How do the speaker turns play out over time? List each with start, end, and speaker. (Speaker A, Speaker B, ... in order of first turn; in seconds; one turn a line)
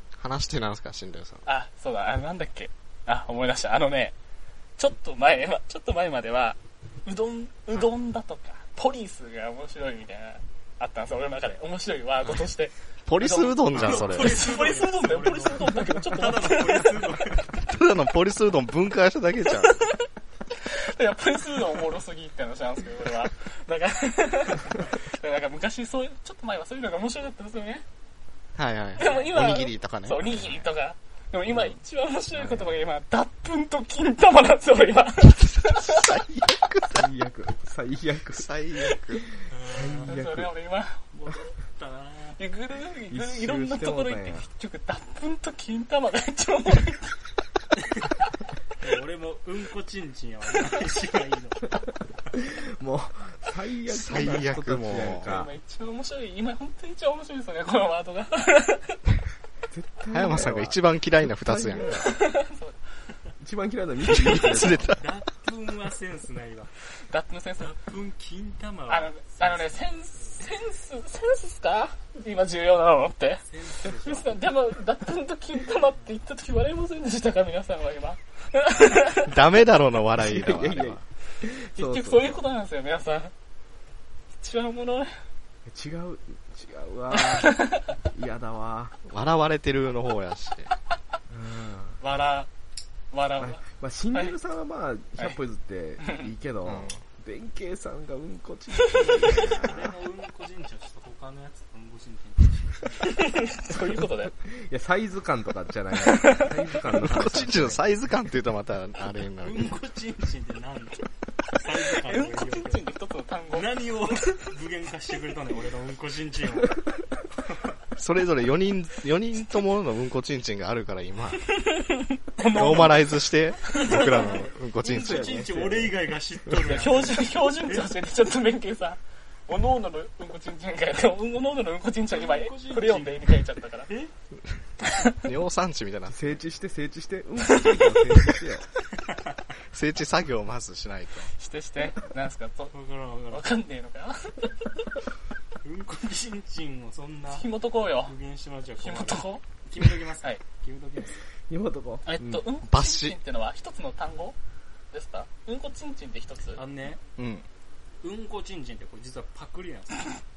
Speaker A: 0.2-1.4
Speaker B: 1.4-4.1
Speaker B: 4.8-17.0
Speaker A: 13.1-14.4
Speaker C: 13.7-17.6
Speaker A: 17.6-19.8
Speaker B: 19.5-20.0
Speaker B: 20.6-27.9
Speaker A: 28.6-30.6
Speaker B: 29.0-36.1
Speaker C: 29.0-29.4
Speaker A: 32.4-32.7
Speaker A: 35.7-37.0
Speaker D: 36.9-38.5
Speaker A: 38.4-39.3
Speaker D: 39.2-40.5
Speaker C: 39.5-40.2
Speaker B: 40.0-41.0
Speaker C: 41.1-42.4
Speaker B: 42.4-47.3
Speaker D: 43.1-44.5
Speaker C: 48.8-51.8
Speaker D: 52.3-55.5
Speaker A: 53.9-55.4
Speaker B: 55.2-59.0
Speaker D: 59.7-62.2
Speaker A: 60.1-62.0
Speaker B: 61.9-62.8
Speaker D: 63.4-64.9
Speaker A: 64.1-65.0
Speaker B: 64.2-64.7
Speaker C: 64.9-66.7
Speaker B: 66.9-67.8
Speaker C: 67.6-70.5
Speaker B: 68.9-79.3
Speaker C: 73.4-74.4
Speaker C: 75.8-76.2
Speaker A: 79.2-81.0
Speaker D: 80.2-82.4
Speaker B: 81.4-83.3
Speaker B: 84.4-85.2
Speaker D: 85.7-89.0
Speaker B: 87.1-87.9
Speaker A: 89.0-90.7
Speaker D: 91.3-92.0
Speaker B: 92.0-92.5
Speaker B: 93.1-93.6
Speaker D: 93.4-99.9
Speaker B: 96.0-96.3
Speaker A: 96.7-97.0
Speaker B: 98.8-99.1
Speaker C: 99.4-103.2
Speaker B: 103.0-104.3
Speaker D: 104.3-107.8
Speaker B: 106.0-106.5
Speaker A: 107.0-109.7
Speaker C: 109.3-112.9
Speaker B: 112.0-114.1
Speaker C: 113.5-117.7
Speaker A: 118.0-121.5
Speaker B: 121.6-124.3
Speaker A: 122.5-125.5
Speaker C: 123.7-127.9
Speaker D: 125.0-126.0
Speaker B: 126.6-133.9
Speaker C: 132.1-134.1
Speaker A: 135.2-136.2
Speaker D: 136.1-138.7
Speaker A: 139.6-141.3
Speaker B: 141.3-142.7
Speaker C: 142.7-143.5
Speaker B: 143.3-144.9
Speaker C: 145.6-151.2
Speaker B: 147.3-148.1
Speaker B: 148.8-149.4
Speaker D: 151.5-152.4
Speaker B: 152.1-154.4
Speaker A: 152.6-153.2
Speaker B: 154.9-156.6
Speaker C: 156.6-157.0
Speaker A: 157.2-157.4
Speaker C: 158.0-160.2